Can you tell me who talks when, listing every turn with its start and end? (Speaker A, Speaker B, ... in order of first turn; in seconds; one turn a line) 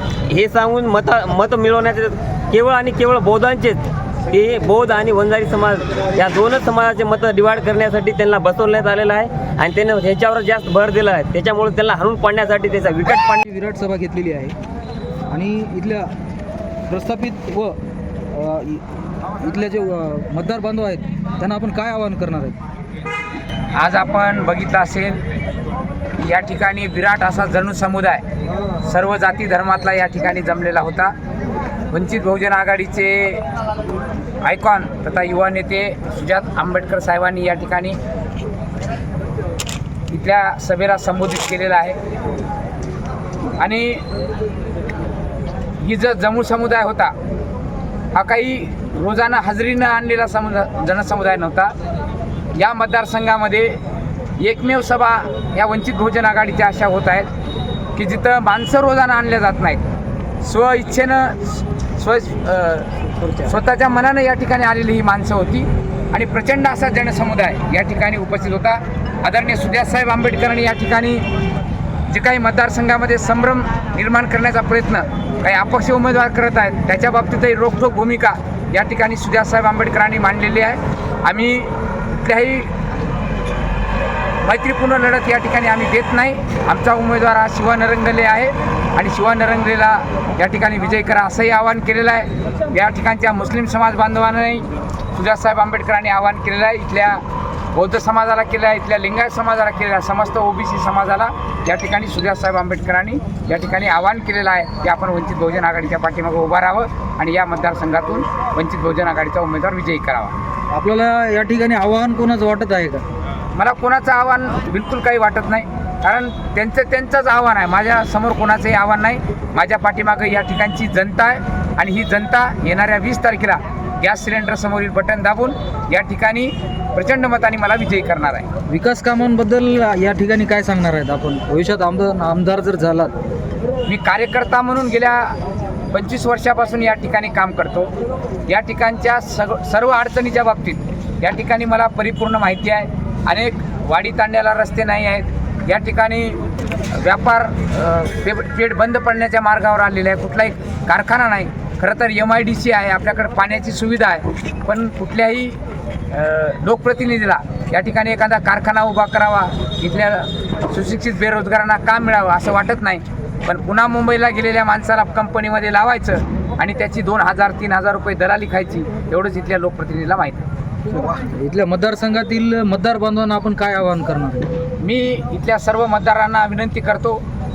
Speaker A: 0.3-13.4
Speaker B: 13.3-14.6
Speaker B: 15.3-16.1
Speaker B: 16.9-17.8
Speaker B: 18.3-18.8
Speaker B: 19.4-22.6
Speaker C: 23.8-25.2
Speaker C: 26.2-28.2
Speaker C: 28.8-31.1
Speaker C: 31.9-33.4
Speaker C: 34.4-38.0
Speaker C: 40.1-42.0
Speaker C: 43.6-44.0
Speaker C: 45.8-47.1
Speaker C: 48.1-51.7
Speaker C: 52.5-53.8
Speaker C: 54.4-57.3
Speaker C: 58.0-59.8
Speaker C: 60.4-71.2
Speaker C: 72.1-82.7
Speaker C: 84.4-97.2
Speaker C: 97.7-110.4
Speaker B: 110.7-113.0
Speaker C: 113.5-128.5
Speaker B: 128.7-133.1
Speaker C: 133.9-135.3
Speaker C: 135.9-137.9
Speaker C: 138.5-146.4
Speaker C: 146.9-155.6
Speaker C: 156.1-170.5
Speaker B: 170.9-174.5
Speaker C: 174.8-177.2